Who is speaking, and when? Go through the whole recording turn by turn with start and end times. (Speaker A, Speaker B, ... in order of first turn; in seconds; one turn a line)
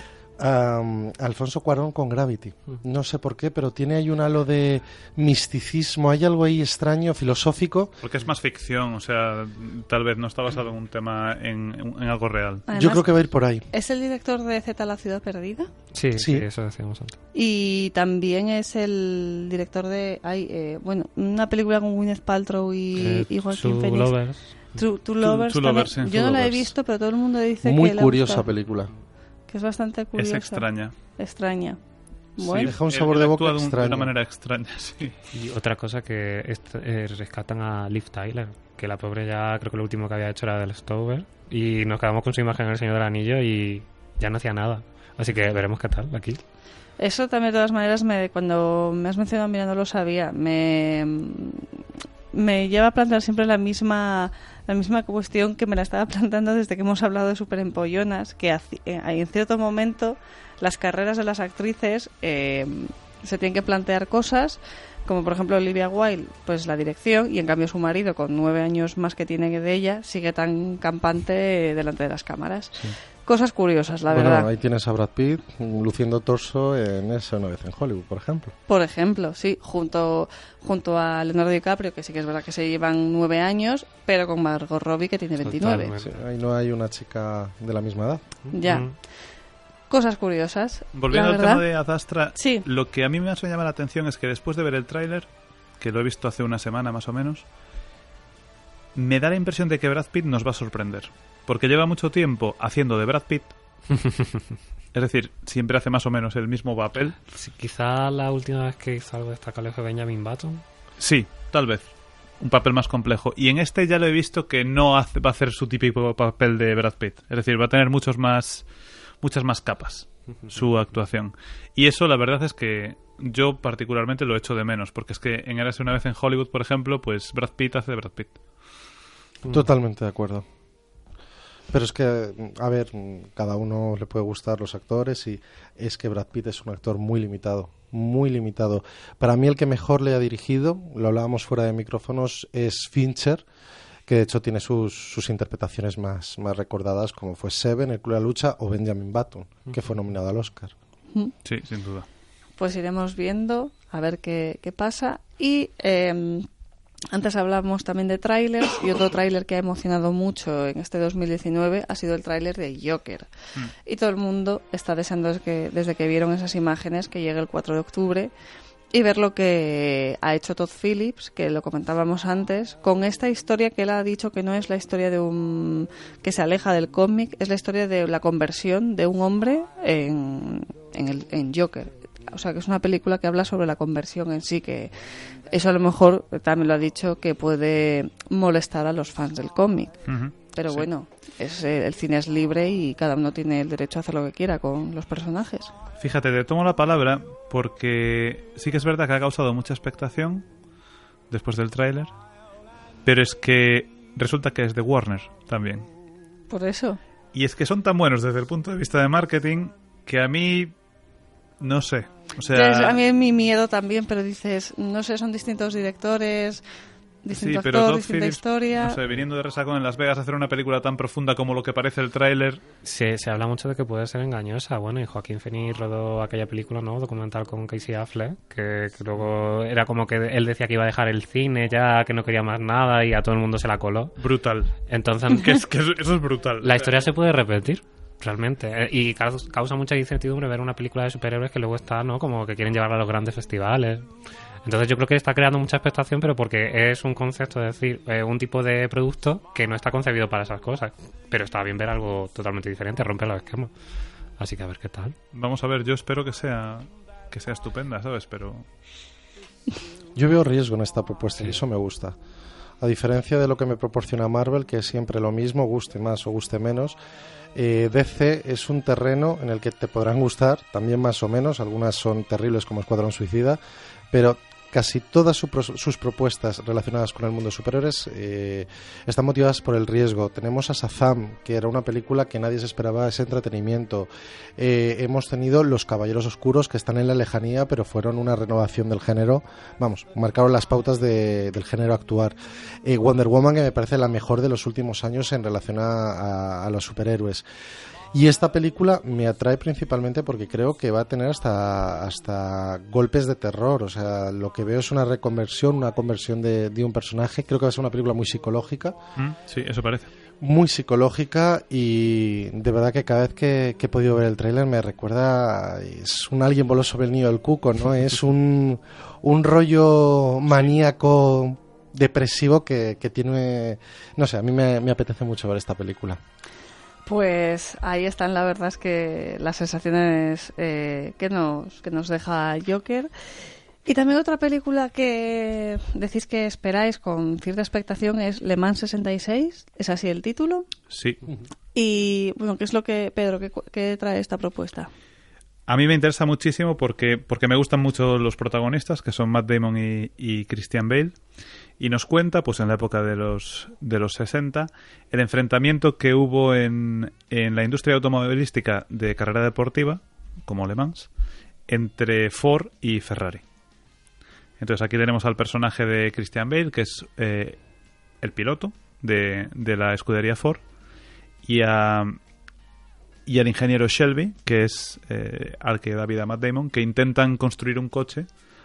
Speaker A: 0.4-8.0
Speaker B: 8.0-12.7
Speaker C: 12.7-13.1
Speaker A: 12.7-13.7
Speaker C: 13.7-15.7
Speaker D: 15.9-17.2
Speaker A: 16.2-16.4
Speaker C: 17.3-28.4
Speaker D: 23.0-24.6
Speaker B: 25.2-26.7
Speaker A: 27.6-28.9
Speaker C: 29.5-31.8
Speaker B: 30.1-30.9
Speaker C: 32.4-32.7
Speaker B: 32.4-35.2
Speaker A: 32.6-34.1
Speaker D: 35.3-46.4
Speaker C: 47.0-51.7
Speaker C: 52.3-74.5
Speaker A: 74.1-78.5
Speaker C: 78.7-85.9
Speaker D: 85.4-86.2
Speaker A: 86.0-88.2
Speaker D: 88.5-88.9
Speaker C: 88.5-89.0
Speaker C: 89.9-91.6
Speaker B: 90.9-97.5
Speaker C: 92.3-92.6
Speaker B: 99.0-103.5
Speaker B: 104.9-107.2
Speaker D: 107.3-110.6
Speaker B: 111.0-111.9
Speaker B: 112.4-128.4
Speaker A: 129.5-130.4
Speaker A: 131.7-143.4
Speaker A: 144.1-150.7
Speaker B: 151.4-152.1
Speaker C: 152.6-156.5
Speaker C: 157.1-163.3
Speaker C: 163.8-168.3
Speaker C: 168.9-184.9
Speaker C: 185.5-195.7
Speaker B: 190.1-190.9
Speaker B: 196.0-200.4
Speaker B: 201.3-202.1
Speaker B: 203.1-205.9
Speaker C: 206.5-207.0
Speaker B: 207.3-210.7
Speaker B: 211.6-213.0
Speaker C: 212.5-216.6
Speaker C: 217.2-219.0
Speaker B: 217.3-222.6
Speaker D: 222.8-234.2
Speaker B: 234.2-234.7
Speaker D: 234.9-235.6
Speaker B: 235.3-237.0
Speaker D: 236.6-244.1
Speaker D: 244.6-253.7
Speaker D: 254.4-255.2
Speaker B: 255.3-258.7
Speaker A: 260.1-262.2
Speaker A: 262.8-267.0
Speaker A: 267.6-273.6
Speaker A: 274.1-297.4
Speaker A: 298.1-309.0
Speaker B: 309.2-310.1
Speaker A: 310.4-326.2
Speaker C: 327.1-333.1
Speaker C: 333.9-340.7
Speaker B: 340.9-341.2
Speaker C: 341.8-344.9
Speaker B: 345.7-351.2
Speaker B: 351.8-361.1
Speaker B: 361.7-363.4
Speaker B: 364.6-367.6
Speaker B: 368.2-370.6
Speaker B: 371.4-372.2
Speaker B: 373.3-378.3